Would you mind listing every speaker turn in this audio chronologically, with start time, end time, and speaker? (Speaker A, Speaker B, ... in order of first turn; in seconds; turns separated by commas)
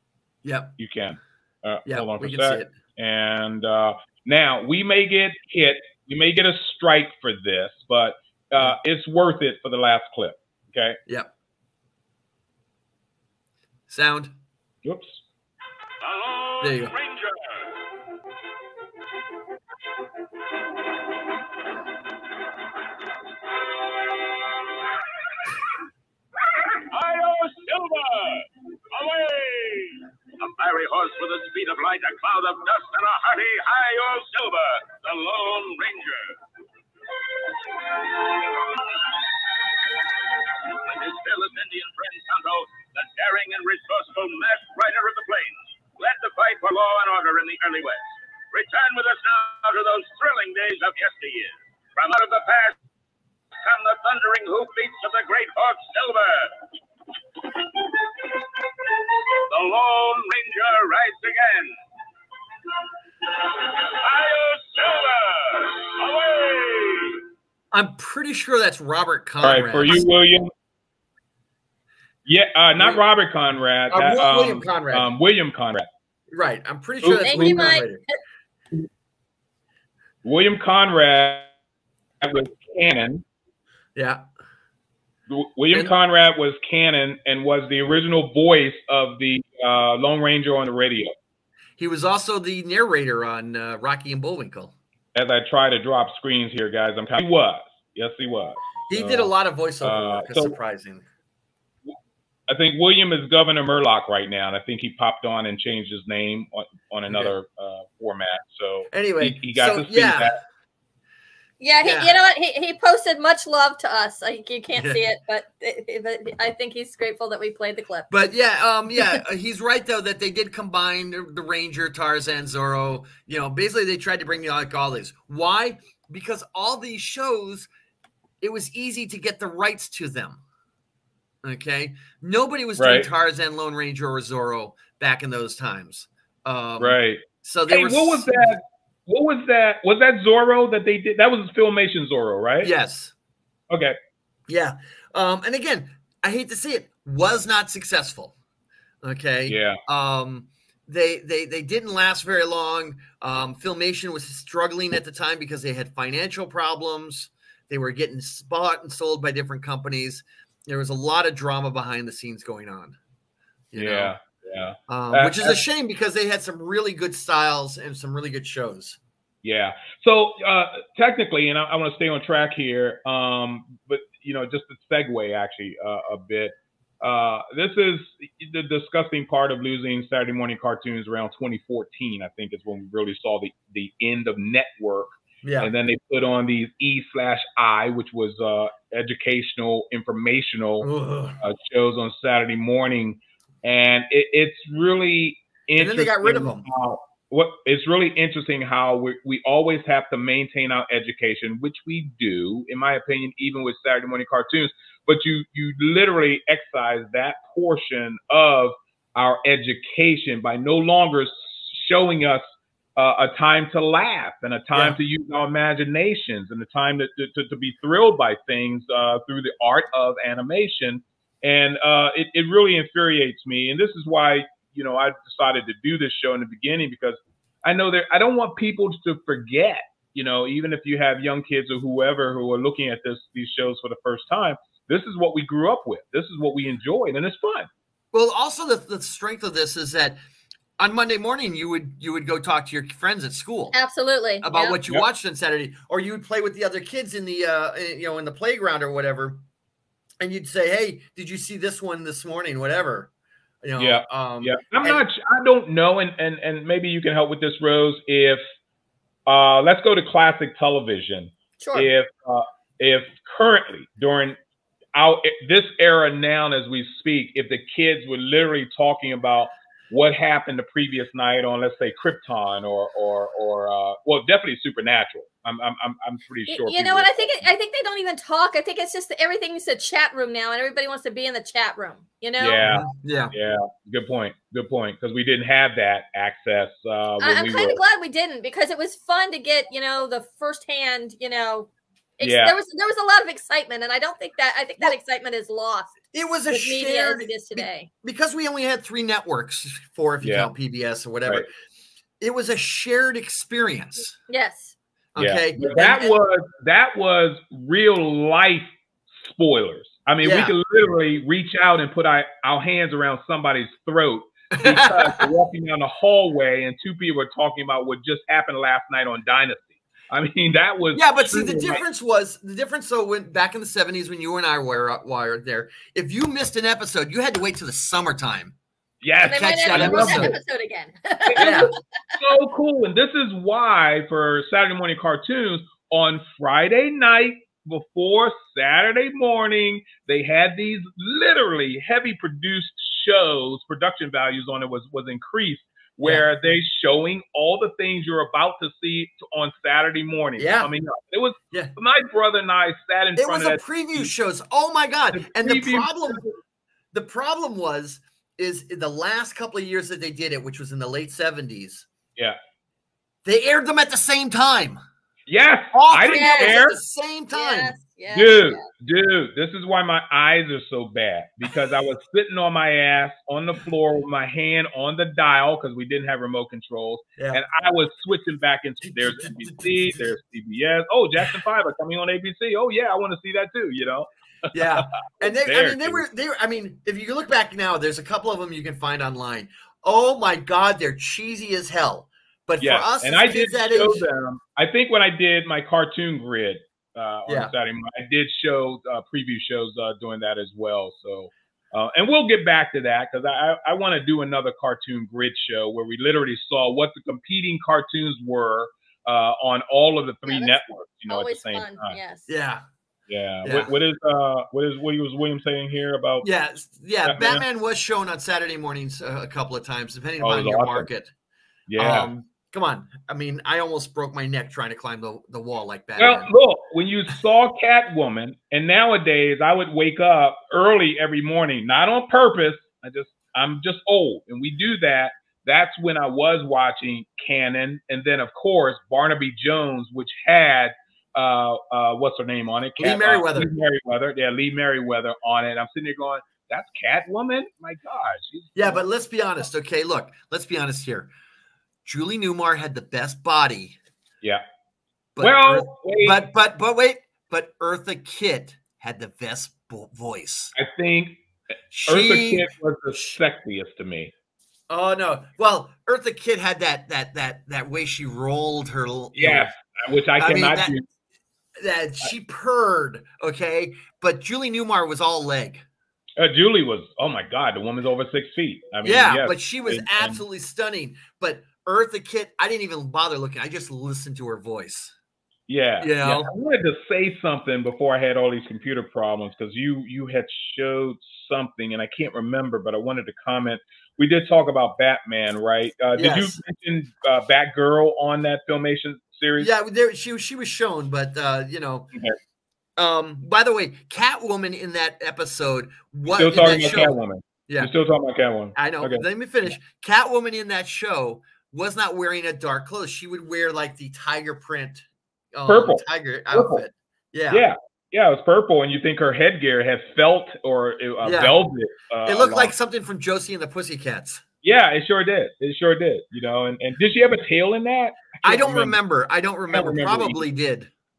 Speaker A: 0.4-0.7, Speaker B: 0.8-11.0, Speaker A: 1.9-2.7, Speaker A: 13.9-14.3, Speaker B: 14.8-15.2, Speaker C: 16.0-17.5, Speaker A: 16.6-17.0, Speaker C: 26.9-36.4, Speaker C: 40.6-52.8, Speaker C: 53.6-56.5, Speaker C: 59.5-61.7, Speaker C: 63.6-67.2, Speaker A: 67.7-70.0, Speaker B: 69.4-70.5, Speaker B: 72.3-75.9, Speaker A: 73.9-75.1, Speaker A: 76.3-78.0, Speaker B: 77.0-77.7, Speaker D: 77.2-77.9, Speaker B: 80.2-81.5, Speaker B: 82.2-83.2, Speaker A: 84.0-84.2, Speaker B: 85.3-91.1, Speaker A: 91.8-94.8, Speaker B: 95.2-100.6, Speaker A: 98.9-101.0, Speaker B: 102.5-110.4, Speaker A: 108.9-110.3, Speaker D: 111.6-118.1, Speaker A: 111.8-112.1, Speaker A: 114.7-115.0, Speaker A: 118.1-127.7, Speaker A: 128.4-130.4, Speaker A: 131.4-138.3, Speaker B: 132.8-133.1, Speaker B: 136.8-142.7, Speaker A: 142.6-143.1, Speaker B: 143.7-144.0, Speaker A: 144.5-148.3, Speaker A: 149.0-163.0, Speaker B: 149.5-149.8, Speaker A: 163.7-164.1, Speaker B: 163.8-165.6, Speaker A: 164.9-169.0, Speaker B: 169.4-190.9, Speaker A: 185.4-185.7, Speaker A: 190.8-191.4, Speaker B: 191.4-237.7, Speaker A: 195.8-196.7, Speaker A: 238.1-240.2, Speaker A: 240.8-243.8, Speaker D: 243.7-244.8, Speaker A: 244.4-249.4, Speaker A: 250.2-253.1, Speaker A: 253.6-255.0, Speaker B: 253.8-258.4, Speaker B: 259.3-264.4, Speaker D: 261.6-261.9, Speaker B: 264.9-277.4, Speaker D: 276.5-282.6, Speaker B: 282.4-287.8, Speaker A: 282.6-283.3, Speaker D: 287.2-295.9, Speaker B: 292.2-292.6, Speaker A: 296.1-301.5, Speaker D: 296.5-297.9, Speaker B: 300.2-300.5, Speaker A: 302.2-304.1, Speaker D: 304.3-304.8, Speaker A: 305.1-306.1, Speaker B: 305.2-308.7, Speaker B: 309.2-321.8, Speaker A: 310.2-310.5, Speaker A: 314.6-315.3, Speaker A: 320.9-328.6, Speaker B: 329.0-330.4, Speaker A: 329.2-330.4, Speaker D: 329.2-331.7, Speaker B: 331.3-354.1, Speaker A: 331.4-331.7, Speaker A: 350.4-350.7, Speaker A: 353.2-356.2, Speaker B: 355.1-356.4, Speaker A: 356.9-361.9, Speaker A: 363.2-364.8, Speaker B: 365.3-366.8, Speaker A: 365.7-367.7, Speaker D: 366.1-366.6, Speaker D: 367.3-368.6, Speaker B: 368.1-386.0, Speaker A: 378.8-380.0, Speaker A: 384.5-394.0, Speaker B: 392.6-412.0, Speaker A: 397.3-397.5, Speaker D: 410.3-410.6, Speaker D: 411.1-412.3, Speaker A: 412.3-412.6, Speaker B: 413.1-416.3, Speaker A: 413.4-413.7, Speaker A: 416.2-421.1, Speaker B: 417.1-417.4, Speaker B: 420.2-420.9, Speaker B: 421.7-422.1, Speaker A: 421.8-426.3, Speaker B: 426.0-448.8, Speaker A: 442.8-443.5, Speaker A: 448.6-451.1, Speaker A: 451.9-453.8, Speaker A: 455.2-460.5, Speaker B: 455.2-456.2, Speaker B: 460.6-461.2, Speaker A: 461.7-463.1, Speaker B: 461.9-464.1, Speaker A: 464.7-469.5, Speaker B: 469.1-470.8, Speaker A: 470.2-470.7, Speaker A: 471.6-475.6, Speaker B: 476.2-480.2, Speaker A: 478.8-484.9, Speaker B: 485.5-499.5, Speaker A: 485.8-486.3, Speaker A: 496.0-496.4, Speaker A: 499.4-501.9, Speaker A: 502.8-507.0, Speaker B: 506.2-509.6, Speaker A: 508.6-517.5, Speaker B: 515.5-516.6, Speaker B: 517.3-522.5, Speaker A: 521.0-521.4, Speaker A: 522.1-524.2, Speaker B: 524.4-528.8, Speaker A: 528.2-530.7, Speaker B: 529.5-530.2